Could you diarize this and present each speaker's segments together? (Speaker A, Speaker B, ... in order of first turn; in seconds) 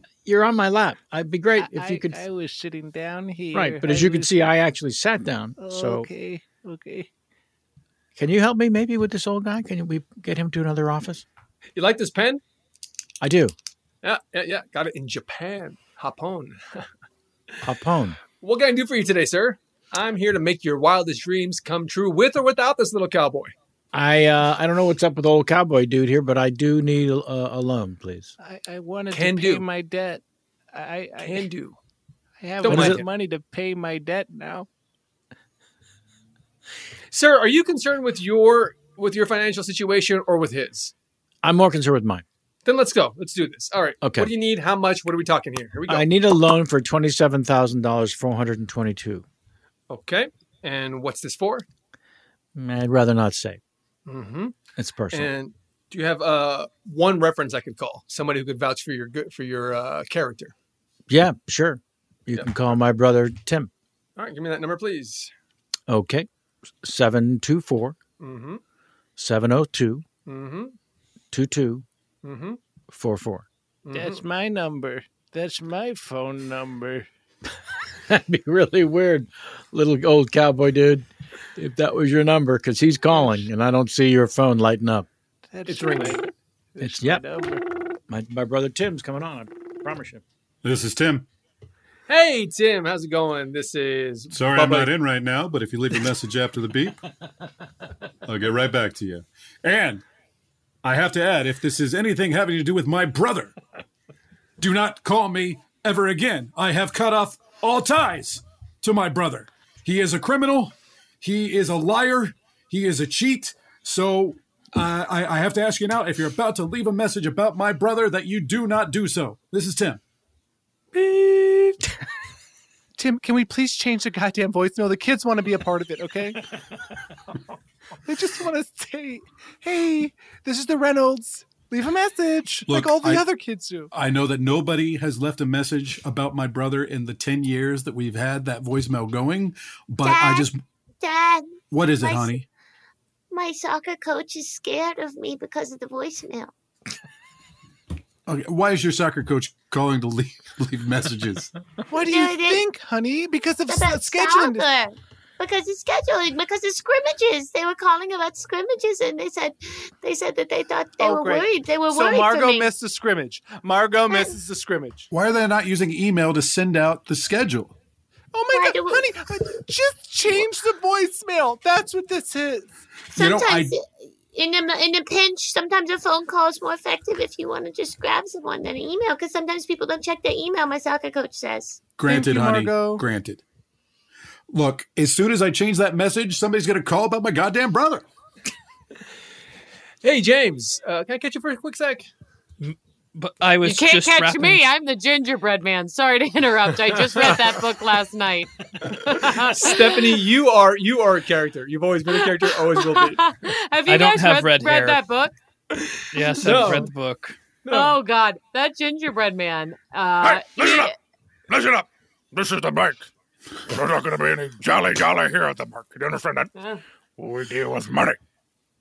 Speaker A: 0.2-2.2, 3.5-6.1, 8.2-11.2, 13.2-13.5, 17.6-18.2, 23.9-28.3, 32.7-33.0, 41.4-42.2, 44.0-44.3, 45.9-49.2, 52.5-53.6, 54.8-55.3, 61.1-63.7, 65.9-66.3, 66.8-68.0, 69.2-70.0, 71.3-71.8, 72.9-73.5, 78.1-85.1, 86.8-87.2, 88.1-90.2
Speaker B: 1.6-4.6, 5.6-7.1, 28.4-30.2, 30.7-31.5, 32.4-34.7, 73.9-77.1, 83.1-83.5, 85.5-86.2, 86.8-87.6, 123.0-126.4, 128.1-133.9, 151.9-154.7, 161.0-165.1, 168.3-172.7, 182.0-183.1
Speaker C: 11.8-12.4, 14.0-16.9, 18.4-23.5, 29.1-29.7, 31.2-31.8, 32.6-33.1, 37.1-40.9, 42.6-46.2, 49.9-51.7, 54.1-54.5, 55.1-60.5, 64.2-65.3, 68.2-68.6, 70.3-70.8, 72.2-72.6, 73.9-74.2, 85.7-86.2, 92.1-94.9, 190.0-192.1, 199.3-203.2, 205.9-206.9, 207.7-208.0
Speaker D: 90.6-91.3, 94.3-97.0, 98.3-100.0, 100.8-103.5, 104.6-120.0, 132.7-133.3, 133.9-140.6, 141.7-142.4, 148.3-151.5, 165.1-167.8, 173.2-173.7, 182.0-183.4, 184.5-188.1
Speaker E: 140.0-140.5, 141.0-142.4, 143.3-146.5, 152.0-152.6, 153.7-162.7, 164.1-164.3, 168.5-169.1, 173.2-181.8
Speaker F: 192.6-194.7, 203.9-205.0, 206.1-207.4
Speaker G: 193.6-200.2, 202.1-205.3, 207.7-210.9
Speaker H: 210.2-210.9, 211.5-213.1, 213.7-216.5, 217.2-218.2